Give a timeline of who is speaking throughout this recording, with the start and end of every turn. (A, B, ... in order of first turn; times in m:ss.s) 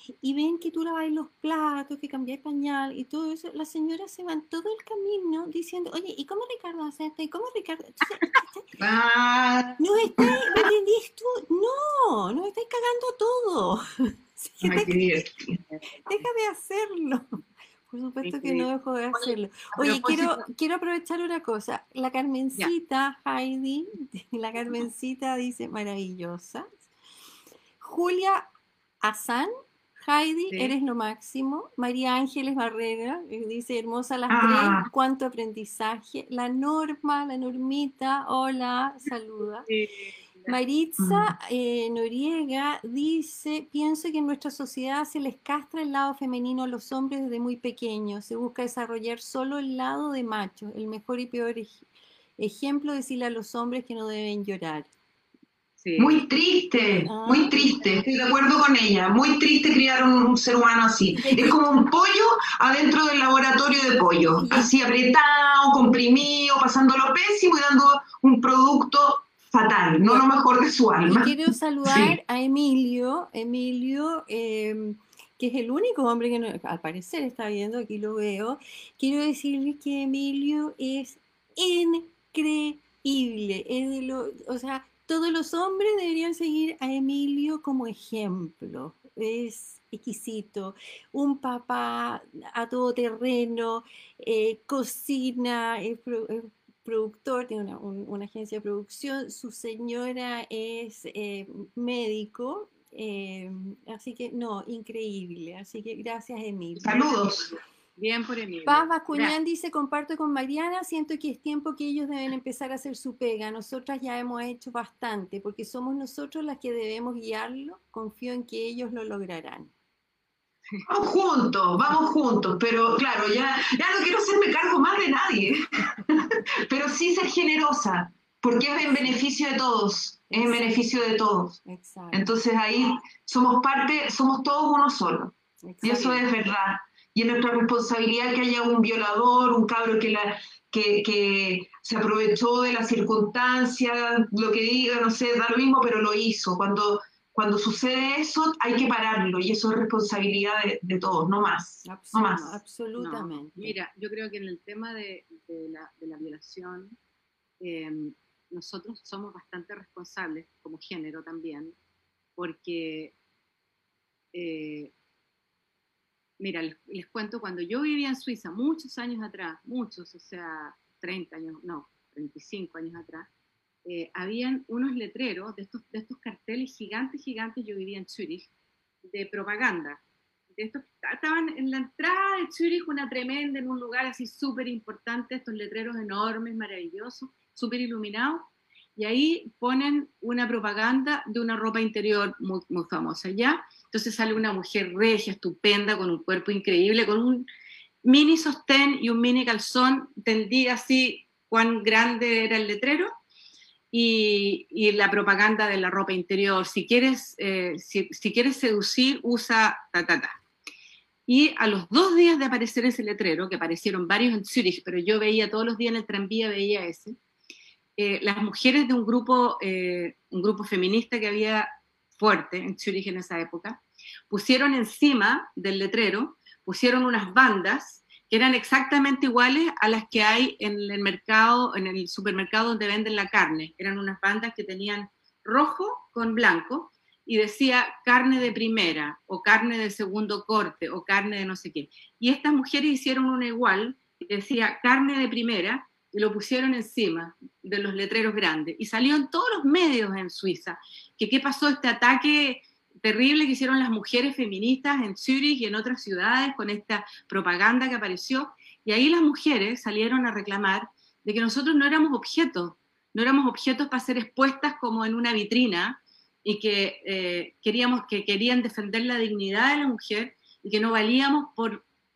0:00.2-0:08.7 A
0:08.8-0:10.3 B
0:09.8-0:15.1 A
0:14.6-0:15.6 B
0:16.0-0:26.7 A
0:18.2-0:20.4 C
0:27.8-0:28.5 A
0:29.0-0:39.7 A
0:30.5-0:30.8 C
0:34.3-0:34.9 B
0:39.7-0:40.5 C
0:40.5-0:51.9 A
0:41.0-0:41.3 B
0:52.4-0:54.9 A
0:55.8-0:56.2 C
0:56.0-1:11.4 B
0:57.0-0:57.6 A
1:01.1-1:01.7 A
1:04.4-1:04.7 A
1:11.1-1:47.3 A
1:11.9-1:12.1 B
1:46.8-1:47.5 B
1:48.0-1:49.4 C
1:48.7-1:59.7 A
2:00.9-2:11.6 B
2:08.8-2:09.2 A
2:10.3-2:10.8 A
2:11.7-2:12.3 A
2:12.1-2:32.6 B
2:15.6-2:16.2 A
2:31.8-2:33.8 A
2:33.0-2:37.0 C
2:37.6-2:41.8 C
2:42.4-2:43.2 C
2:44.3-2:44.9 C
2:46.4-2:53.3 C
2:53.8-2:58.5 C
2:59.0-3:00.0 C
3:00.6-3:17.5 C
3:18.0-3:23.1 C
3:23.9-3:30.4 C
3:31.3-3:37.2 C
3:38.0-4:31.8 C